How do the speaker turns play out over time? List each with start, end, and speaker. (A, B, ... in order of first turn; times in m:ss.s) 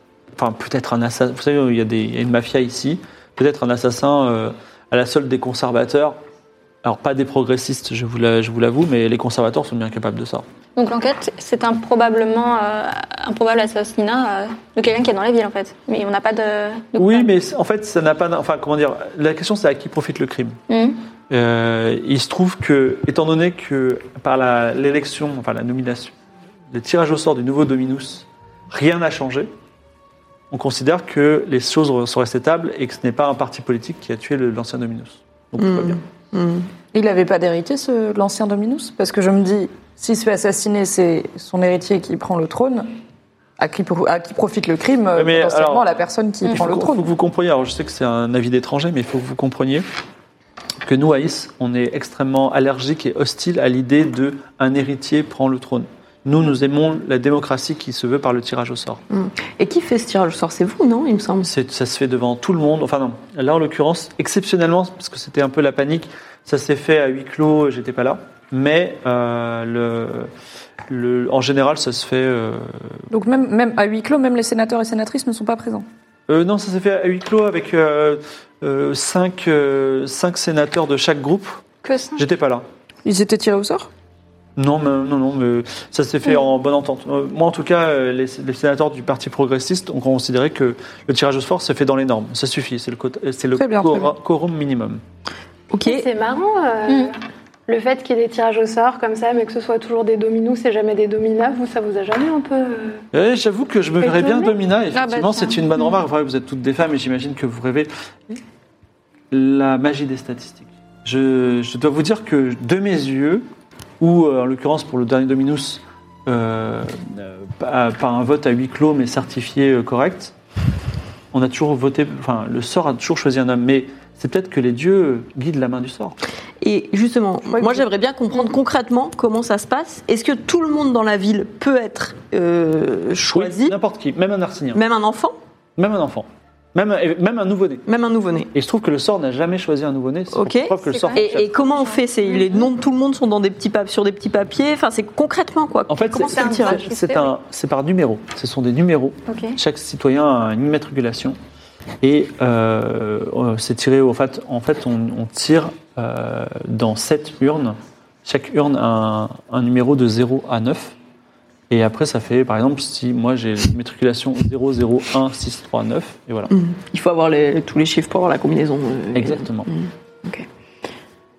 0:00.4-0:06.2 A
0:06.8-0:10.4 A
0:10.8-0:17.3 B
0:17.0-0:20.6 A
0:20.7-0:21.0 B
0:21.3-0:26.1 A
0:26.7-0:29.5 A
0:30.5-0:36.0 A
0:35.6-0:36.7 C
0:36.9-0:42.9 D
0:43.6-0:47.1 D
0:45.1-0:45.8 A
0:46.5-0:49.8 A
0:50.8-0:59.0 A
0:59.1-1:01.5 C
1:01.4-1:10.3 A
1:10.9-1:13.0 A
1:13.1-1:15.8 D
1:16.3-1:21.6 A
1:21.8-1:22.2 B
1:22.2-1:22.6 A
1:23.0-1:23.9 D
1:24.6-1:35.0 A
1:33.6-1:34.1 D
1:35.7-1:36.1 C
1:35.8-1:37.2 E
1:37.7-1:43.0 E
1:43.1-1:48.4 A
1:44.0-1:44.5 E
1:44.9-1:45.8 B
1:49.3-1:53.4 A
1:54.0-2:00.3 A
2:01.3-2:06.2 A
2:06.6-2:13.8 C
2:13.3-2:14.8 A
2:14.7-2:15.4 C
2:15.8-2:17.8 A
2:17.8-2:18.5 C
2:18.5-2:21.5 A
2:20.3-2:26.8 C
2:20.8-2:22.7 B
2:25.9-2:31.4 A
2:26.2-2:27.3 B
2:29.3-2:29.6 B
2:32.0-2:40.9 A
2:41.7-2:46.5 A
2:46.5-2:50.5 C
2:49.1-2:49.7 A